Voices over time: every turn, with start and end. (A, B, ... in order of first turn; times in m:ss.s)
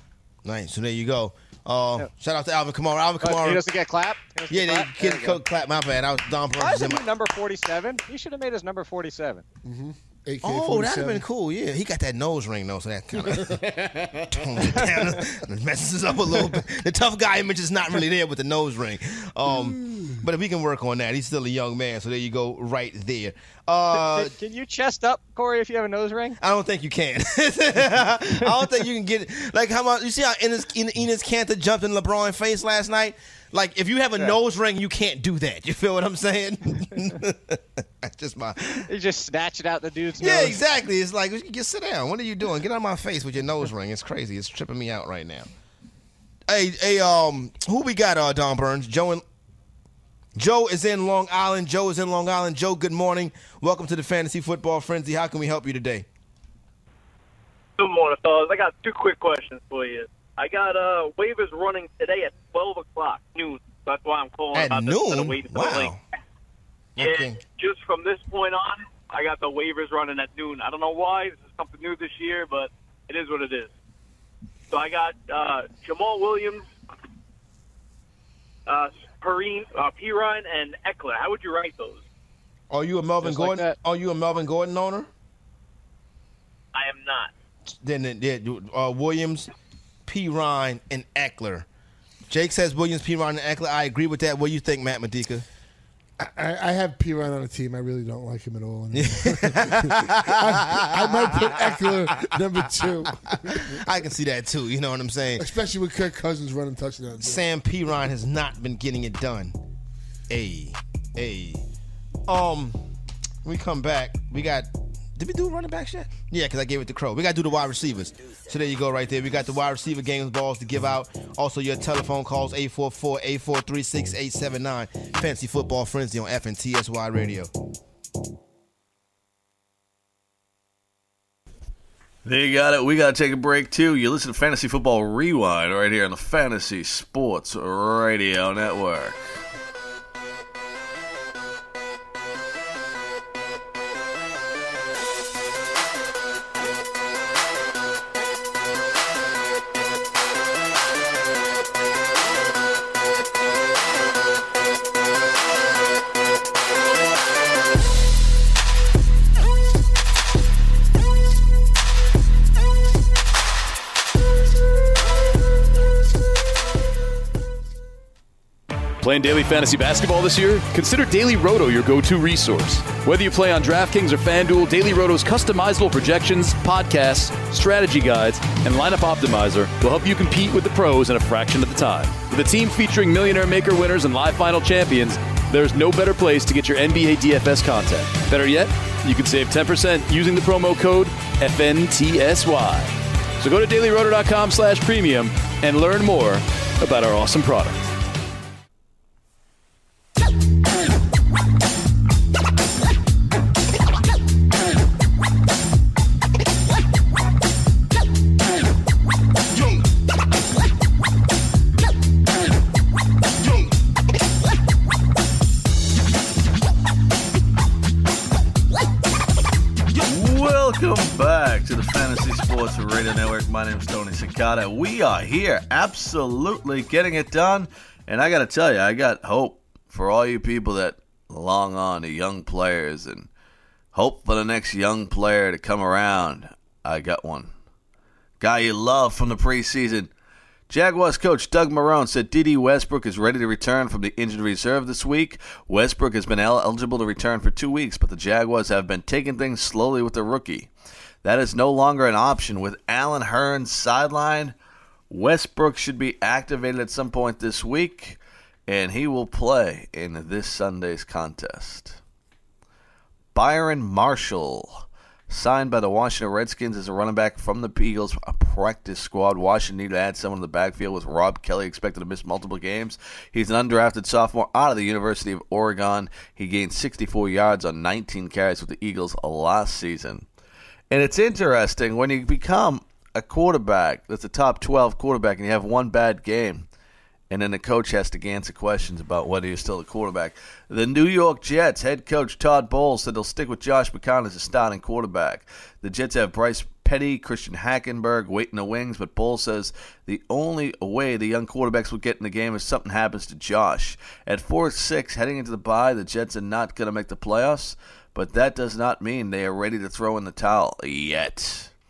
0:00.4-0:03.6 A
0:03.2-0:05.4 B
0:04.5-0:07.1 A
0:06.6-0:09.4 B
0:09.6-0:11.2 C
0:10.4-0:13.6 A
0:13.3-0:14.5 C
0:14.3-0:24.3 A
0:19.6-0:20.1 C
0:23.9-0:26.4 B
0:26.4-0:38.9 A
0:38.9-0:40.6 B
0:40.2-0:45.5 A
0:46.5-0:49.2 A
0:50.4-0:56.0 A
0:57.8-1:05.9 D
1:04.5-1:06.0 A
1:07.0-1:07.4 A
1:07.0-1:13.7 D
1:14.7-1:16.6 D
1:18.7-1:22.0 D
1:22.7-1:25.1 A
1:23.2-1:23.7 B
1:26.7-1:27.3 D
1:27.8-1:29.5 A
1:30.0-1:31.6 A
1:32.3-1:35.4 A
1:36.2-1:43.8 C
1:38.9-1:45.5 A
1:45.4-1:47.4 C
1:47.2-1:49.6 A
1:50.3-1:51.6 A
1:52.2-1:52.8 A
1:53.4-2:07.5 A
2:12.2-2:19.2 E
2:49.0-3:17.8 F
3:40.0-3:53.3 E
3:53.9-3:57.5 E
3:58.4-4:00.1 E
4:00.7-4:10.7 E
4:11.2-4:14.5 E
4:15.1-4:22.0 E
4:23.3-4:40.2 E
4:40.9-4:46.7 E
4:47.3-5:11.7 E